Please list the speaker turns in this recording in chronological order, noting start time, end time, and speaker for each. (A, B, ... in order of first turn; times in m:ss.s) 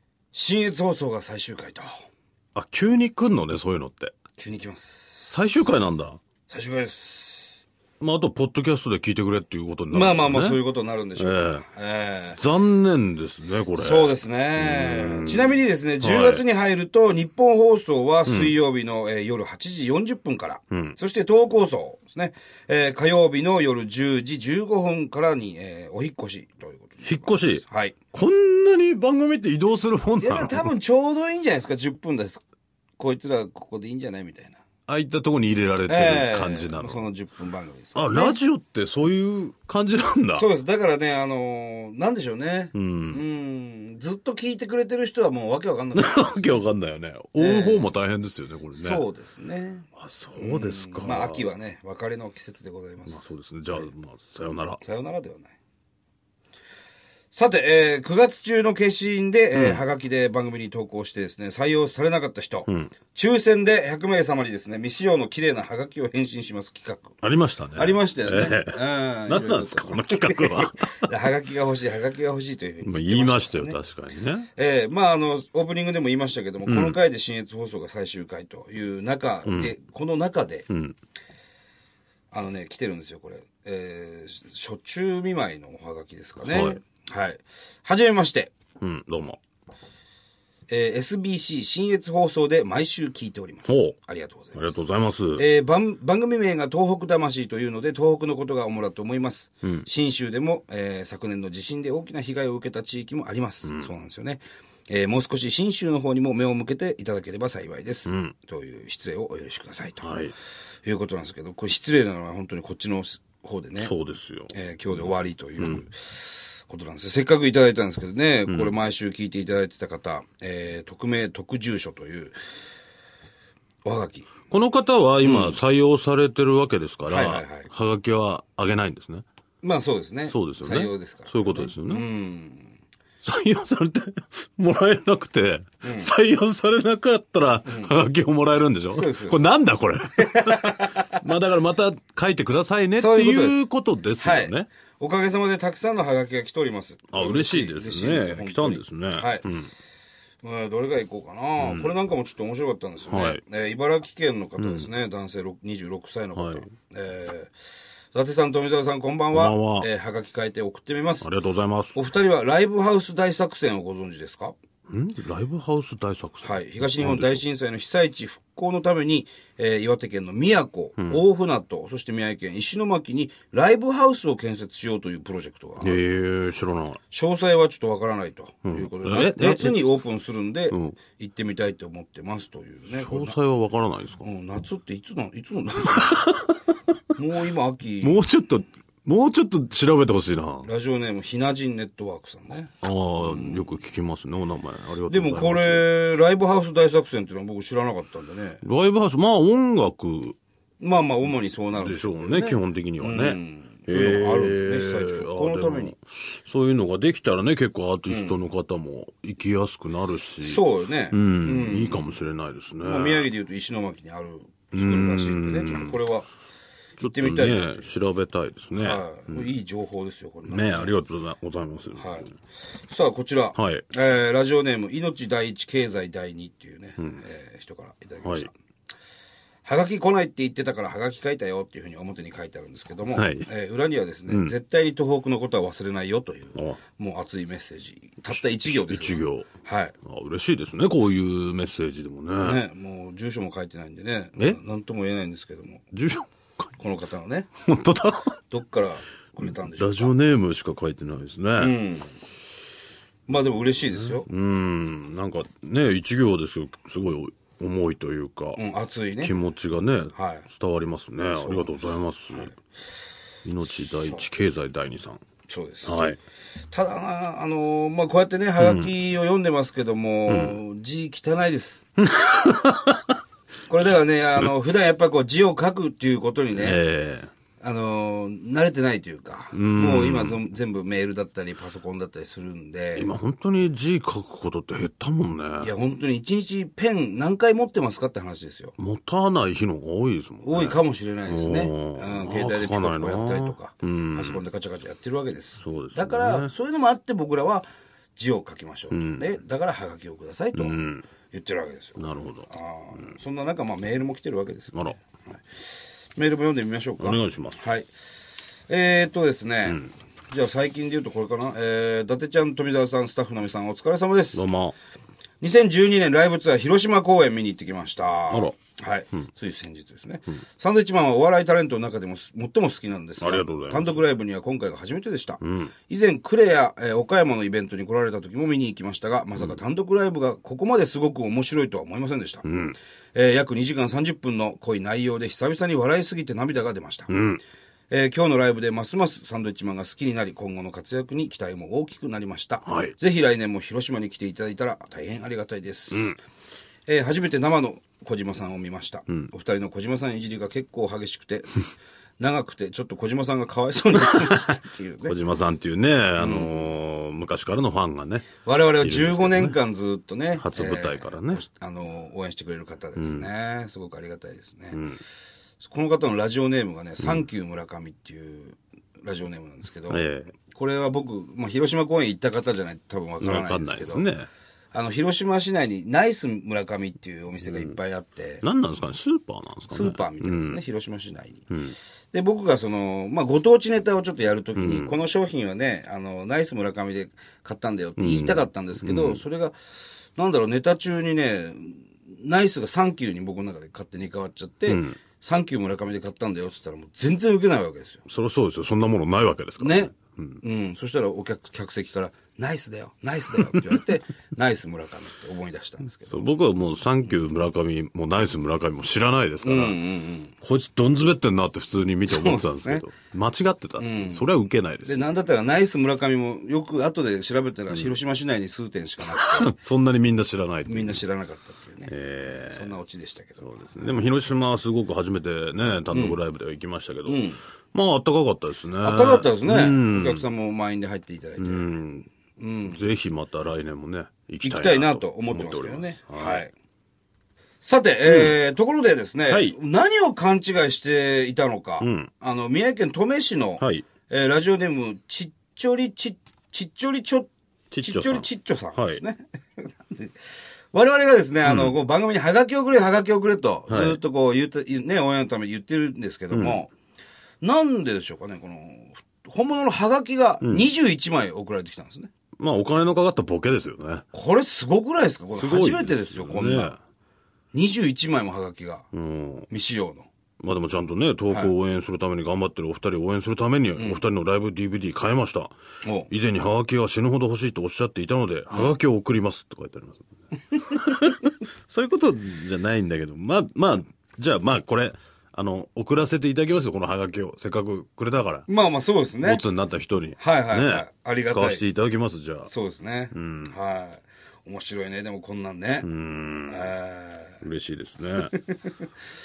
0:00.3-0:01.9 A
0:02.5-0:04.1 B
0:04.4-0:05.4 A
0:05.3-0:06.2 B
0:06.5-0:07.6 A
0:08.0-0:10.6 B
0:09.9-0:12.4 A
0:11.2-0:11.6 B
0:12.4-0:16.4 B
0:13.7-0:28.0 A
0:18.2-0:18.5 B
0:20.7-0:21.0 B
0:27.0-0:30.7 B
0:30.2-0:32.4 A
0:33.0-0:34.6 A
0:34.9-0:37.0 B
0:35.9-0:38.4 A
0:37.9-0:40.5 B
0:40.3-0:46.6 A
0:42.7-0:43.2 B
0:45.9-0:49.0 B
0:47.4-0:47.9 A
0:48.7-0:53.9 A
0:50.0-0:51.5 B
0:53.1-0:54.8 B
0:54.8-0:55.5 A
0:57.3-1:07.2 A
0:59.5-0:59.8 B
1:02.6-1:02.9 B
1:07.2-1:11.1 B
1:07.7-1:13.8 A
1:12.8-1:14.5 B
1:14.6-1:20.7 A
1:16.6-1:17.0 B
1:19.4-1:19.7 B
1:20.7-1:21.0 B
1:22.3-1:28.5 A
1:26.4-1:26.8 B
1:28.8-1:29.4 B
1:30.7-1:34.7 A
1:33.7-1:33.9 B
1:34.5-1:35.4 B
1:35.3-1:50.1 A
1:48.1-1:48.3 B
1:50.0-1:50.3 B
1:50.8-1:53.9 A
1:53.8-1:55.8 B
1:54.5-2:02.3 A
1:58.5-1:58.8 B
2:03.8-2:04.3 A
2:04.5-2:09.2 B
2:05.2-2:05.6 A
2:07.1-2:07.7 A
2:09.6-2:12.7 A
2:10.3-2:12.0 B
2:13.2-2:24.7 B
2:15.8-2:16.1 A
2:17.7-2:17.9 A
2:18.9-2:19.4 A
2:20.2-2:21.2 A
2:22.9-2:23.7 A
2:24.2-2:29.4 A
2:27.1-2:29.7 B
2:30.4-2:37.5 A
2:31.6-2:31.9 B
2:33.1-2:33.4 B
2:34.6-2:34.9 B
2:36.3-2:36.7 B
2:38.1-2:41.2 A
2:39.3-2:39.9 B
2:41.2-2:42.0 B
2:41.9-2:44.5 A
2:44.9-2:47.4 B
2:46.4-2:56.0 A
2:55.8-2:57.0 B
2:57.1-3:03.4 A
2:58.6-2:59.8 B
3:00.7-3:01.0 B
3:02.9-3:04.2 B
3:04.2-3:06.3 A
3:05.9-3:06.7 B
3:07.2-3:08.2 A
3:08.0-3:10.7 B
3:10.6-3:13.6 A
3:12.8-3:15.8 B
3:15.1-3:18.6 A
3:18.6-3:20.4 B
3:20.8-3:25.9 A
3:21.8-3:33.3 B
3:28.1-3:28.4 A
3:30.4-3:32.1 A
3:32.8-3:36.3 A
3:34.7-3:35.9 B
3:37.0-3:39.5 B
3:37.0-3:37.9 A
3:38.8-3:40.9 A
3:40.4-3:42.3 B
3:42.0-3:42.3 A
3:42.9-3:48.5 A
3:43.5-3:43.8 B
3:48.2-3:48.5 B
3:49.6-3:59.9 A
3:53.1-3:53.5 B
3:54.3-3:54.5 B
3:58.3-3:59.5 B
4:00.0-4:02.6 B
4:02.4-4:05.8 A
4:05.9-4:06.7 B
4:06.8-4:07.5 A
4:07.6-4:08.4 B
4:08.5-4:10.1 A
4:09.4-4:11.7 B
4:11.6-4:12.1 A
4:13.3-4:14.3 A
4:13.9-4:18.6 B
4:18.5-4:19.3 A
4:19.2-4:22.5 B
4:20.1-4:20.4 A
4:21.3-4:21.7 A
4:23.4-4:25.2 B
4:23.8-4:24.2 A
4:25.5-4:26.2 A
4:25.8-4:26.2 B
4:26.7-4:31.9 A
4:28.6-4:28.9 B
4:30.3-4:30.6 B
4:32.0-4:33.2 B
4:33.7-4:36.8 A
4:36.5-4:37.3 B
4:37.6-4:43.1 A
4:39.5-4:40.4 B
4:42.9-4:45.7 B
4:45.6-4:48.7 A
4:48.8-4:54.4 B
4:50.4-5:04.8 A
4:55.6-4:56.5 B
4:58.9-4:59.2 B
5:00.5-5:01.0 B
5:02.0-5:02.5 B
5:06.2-5:07.9 A
5:07.0-5:07.6 B
5:08.7-5:14.4 A
5:14.3-5:14.8 B
5:15.4-5:32.4 A
5:23.2-5:24.0 B
5:25.4-5:25.7 B
5:32.4-5:32.8 B
5:33.1-5:37.1 A
5:37.1-5:37.4 B
5:37.9-5:46.1 A
5:42.7-5:42.9 B
5:45.9-5:46.2 B
5:46.9-5:51.7 A
5:52.2-5:55.1 A
5:54.0-5:54.4 B
5:55.0-5:59.6 B
5:56.2-5:56.5 A
5:58.4-6:04.8 A
6:00.4-6:01.4 B
6:03.0-6:03.3 B
6:04.7-6:05.0 B
6:05.6-6:14.1 A
6:09.9-6:10.3 B
6:13.2-6:14.3 B
6:14.7-6:18.4 A
6:17.5-6:17.7 B
6:18.4-6:20.6 B
6:19.7-6:21.5 A
6:21.5-6:21.8 B
6:22.1-6:29.5 A
6:24.6-6:24.9 B
6:28.0-6:29.2 B
6:30.2-6:38.0 A
6:34.7-6:35.0 B
6:38.1-6:40.4 B
6:39.6-6:46.3 A
6:46.1-6:49.8 B
6:49.4-6:50.3 A
6:50.4-6:55.0 B
6:52.1-6:52.8 A
6:53.8-6:54.3 A
6:54.8-6:59.5 A
6:57.7-6:58.0 B
6:59.1-7:01.0 B
7:00.7-7:01.9 A
7:01.9-7:02.7 B
7:02.5-7:03.9 A
7:03.4-7:10.2 B
7:05.9-7:06.2 A
7:07.0-7:07.4 A
7:08.8-7:11.6 A
7:11.4-7:12.1 B
7:12.4-7:12.8 A
7:12.7-7:16.4 B
7:14.4-7:16.5 A
7:17.6-7:27.3 A
7:18.0-7:18.4 B
7:19.3-7:19.6 B
7:21.8-7:22.1 B
7:23.6-7:23.9 B
7:27.7-7:29.0 B
7:27.8-7:30.1 A
7:30.7-7:36.7 A
7:31.4-7:31.8 B
7:33.7-7:34.0 B
7:36.3-7:36.6 B
7:37.4-7:42.1 A
7:40.4-7:40.7 B
7:42.4-7:44.0 B
7:44.1-7:46.8 A
7:45.3-7:46.8 B
7:47.5-7:48.9 A
7:48.9-7:49.5 B
7:49.5-7:50.1 A
7:50.4-7:55.5 B
7:53.8-7:54.0 A
7:55.8-7:56.1 A
7:56.1-8:08.5 B
8:08.5-8:09.4 A
8:09.2-8:12.5 B
8:10.2-8:11.6 A
8:12.4-8:15.9 A
8:13.1-8:13.5 B
8:15.8-8:16.7 B
8:16.5-8:17.4 A
8:17.4-8:18.3 B
8:18.2-8:18.7 A